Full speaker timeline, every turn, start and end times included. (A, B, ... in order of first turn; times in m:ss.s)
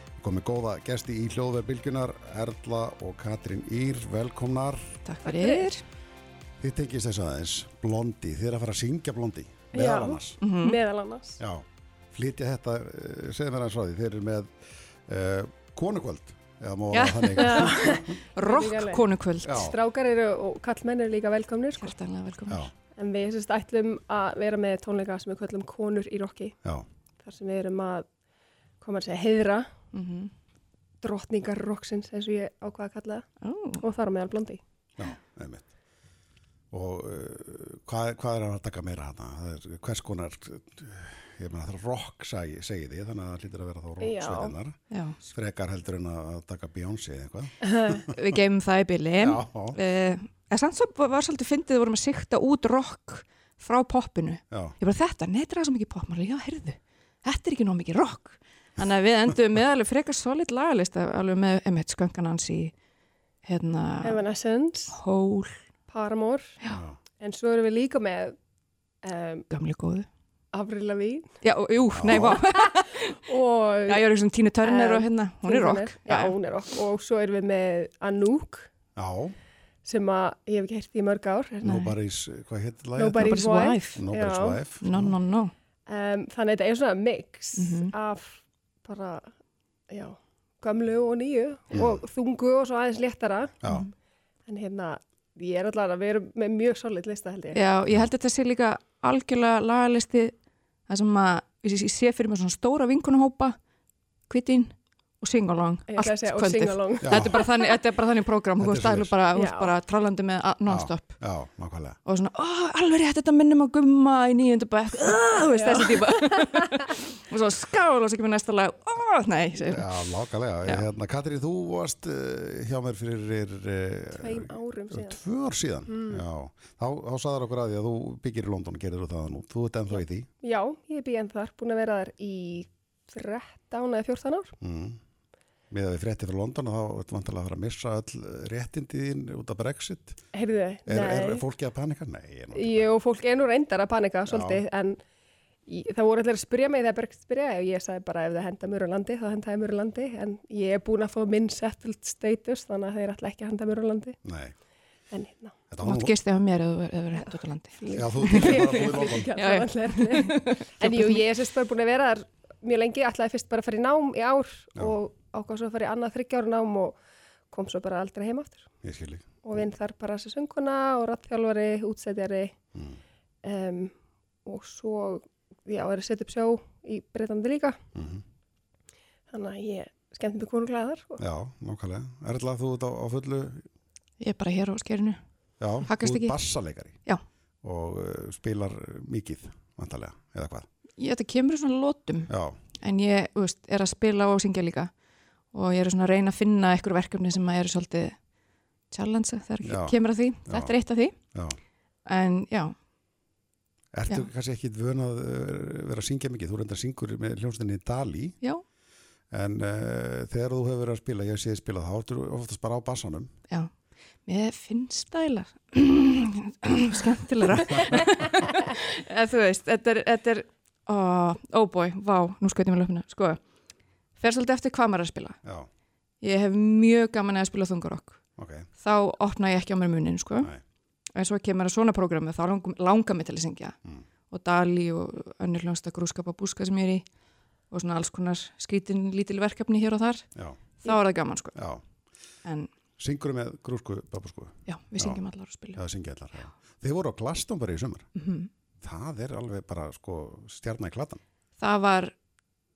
0:00.2-0:05.0 A
0:05.0-0:05.8 B
0:05.2-0:05.7 C
0:06.6-0:10.4 A
0:09.7-0:11.4 C
0:10.4-0:10.8 B
0:11.4-0:14.5 A
0:15.1-0:18.0 A
0:16.9-0:19.7 B
0:17.4-0:21.9 C
0:19.4-0:19.8 A
0:21.8-0:22.7 B
0:22.9-0:26.6 C
0:27.2-0:28.0 C
0:28.8-0:29.7 C
0:29.9-0:30.3 B
0:31.0-0:33.3 C
0:33.4-0:33.8 B
0:33.8-0:34.6 C
0:35.0-0:35.7 A
0:36.7-0:48.1 A
0:44.0-0:44.6 C
0:44.9-0:45.2 B
0:47.6-0:48.0 C
0:48.1-1:02.7 B
0:49.2-0:49.8 A
0:54.5-0:54.8 A
1:03.4-1:04.2 B
1:04.0-1:05.0 C
1:04.9-1:05.6 B
1:05.9-1:06.6 C
1:06.7-1:07.0 A
1:07.2-1:08.4 C
1:09.0-1:09.5 C
1:09.5-1:10.1 B
1:10.5-1:11.3 C
1:11.4-1:13.2 B
1:11.9-1:12.4 A
1:12.1-1:14.1 C
1:13.8-1:16.3 B
1:14.6-1:18.7 C
1:19.0-1:19.3 A
1:19.8-1:21.8 C
1:21.6-1:23.3 A
1:21.6-1:22.0 B
1:23.0-1:24.6 C
1:23.2-1:24.0 B
1:23.9-1:25.2 A
1:24.8-1:25.5 B
1:25.9-1:29.3 C
1:27.6-1:27.9 B
1:29.9-1:33.6 C
1:31.7-1:32.0 A
1:33.6-1:33.9 A
1:33.6-1:33.9 B
1:34.4-1:37.6 C
1:37.5-1:40.3 B
1:40.9-1:43.6 B
1:44.3-1:51.2 B
1:45.9-1:47.7 C
1:47.0-1:47.4 A
1:48.6-1:49.1 A
1:49.3-1:49.7 C
1:50.7-1:52.0 A
1:52.0-2:00.0 B
1:55.4-1:56.7 C
1:59.7-2:10.3 A
2:04.1-2:05.2 C
2:05.9-2:06.2 C
2:10.4-2:14.5 C
2:14.6-2:15.0 A
2:15.7-2:20.2 A
2:20.3-2:21.4 C
2:20.9-2:22.9 A
2:22.5-2:25.0 C
2:24.3-2:24.6 A
2:25.6-2:34.2 C
2:34.2-2:34.5 A
2:35.1-2:35.6 C
2:35.7-2:36.1 A
2:35.8-2:41.2 B
2:37.2-2:47.0 C
2:37.9-2:39.3 A
2:47.5-2:48.6 C
2:48.8-2:49.4 A
2:49.4-2:52.5 C
2:53.4-2:53.9 C
2:54.4-2:57.8 C
2:57.9-2:58.2 A
2:59.3-3:01.2 C
3:01.2-3:03.6 A
3:04.2-3:05.2 B
3:05.6-3:07.0 A
3:05.8-3:06.4 B
3:07.6-3:10.7 A
3:11.0-3:12.3 B
3:12.3-3:12.6 A
3:12.8-3:14.9 B
3:15.5-3:18.2 B
3:18.9-3:21.1 B
3:19.6-3:20.7 A
3:22.0-3:22.7 B
3:23.9-3:28.4 A
3:29.3-3:33.3 A
3:34.2-3:43.4 B
3:44.2-3:45.4 B
3:46.2-3:48.2 B
3:48.4-3:48.7 A
3:48.8-3:50.5 B
3:51.1-3:53.7 B
3:54.3-3:57.0 B
3:57.7-4:00.2 B
4:00.8-4:01.6 B
4:01.5-4:01.8 A
4:02.4-4:02.7 B
4:03.0-4:05.2 A
4:04.7-4:05.8 B
4:05.7-4:08.1 A
4:08.2-4:08.5 B
4:08.8-4:11.2 A
4:11.6-4:12.1 B